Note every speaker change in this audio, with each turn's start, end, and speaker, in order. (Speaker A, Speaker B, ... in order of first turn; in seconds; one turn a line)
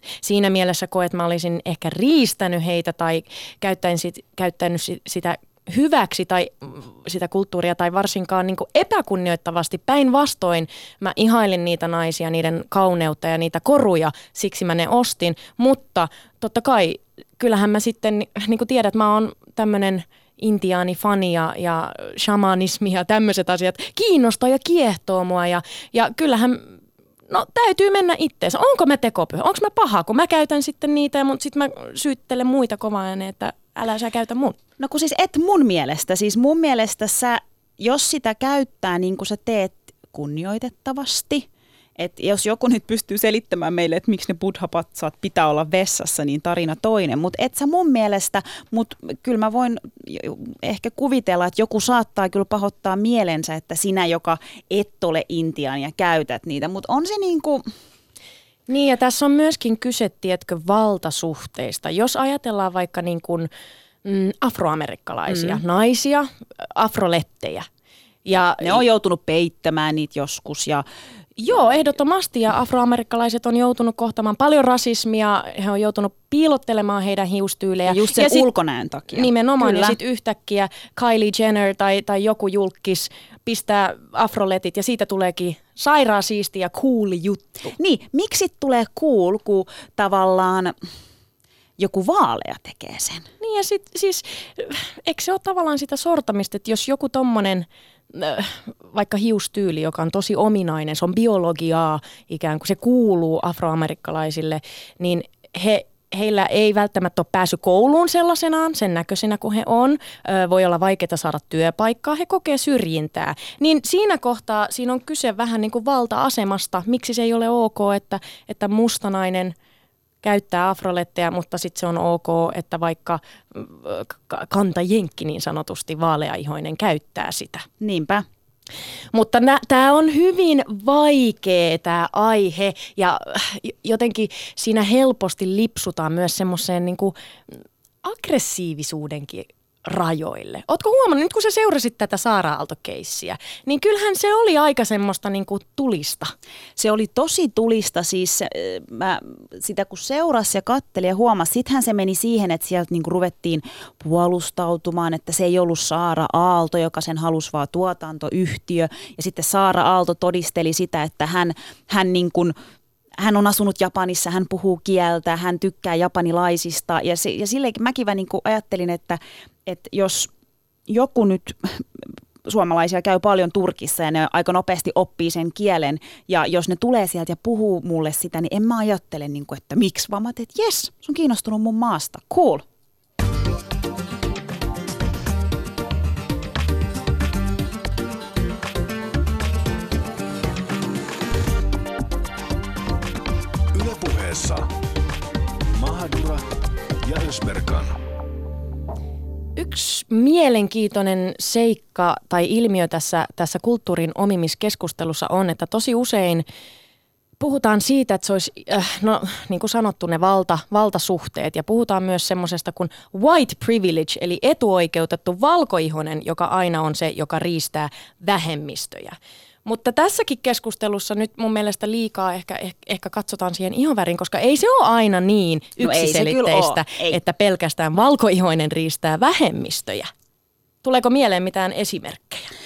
Speaker A: 0.2-34.6
Speaker B: 34.8-57.7
Speaker A: 58.7-63.5
Speaker A: 64.0-67.7
Speaker B: 65.3-65.6
Speaker A: 68.3-68.8
Speaker B: 68.6-70.8
Speaker A: 71.4-78.5
Speaker B: 77.9-80.0
Speaker A: 79.1-87.7
Speaker B: 87.8-90.8
Speaker B: 91.8-93.3
Speaker A: 93.4-119.5
Speaker A: 120.2-127.7
Speaker B: 127.8-128.2
Speaker A: 129.1-146.3
Speaker B: 146.8-162.5
Speaker B: 163.2-170.3
Speaker B: 170.9-182.7
Speaker C: 193.7-194.7
Speaker C: 195.7-198.0
Speaker A: 199.6-206.4
Speaker A: 207.4-230.1
Speaker B: 225.8-227.2
Speaker A: 230.8-232.5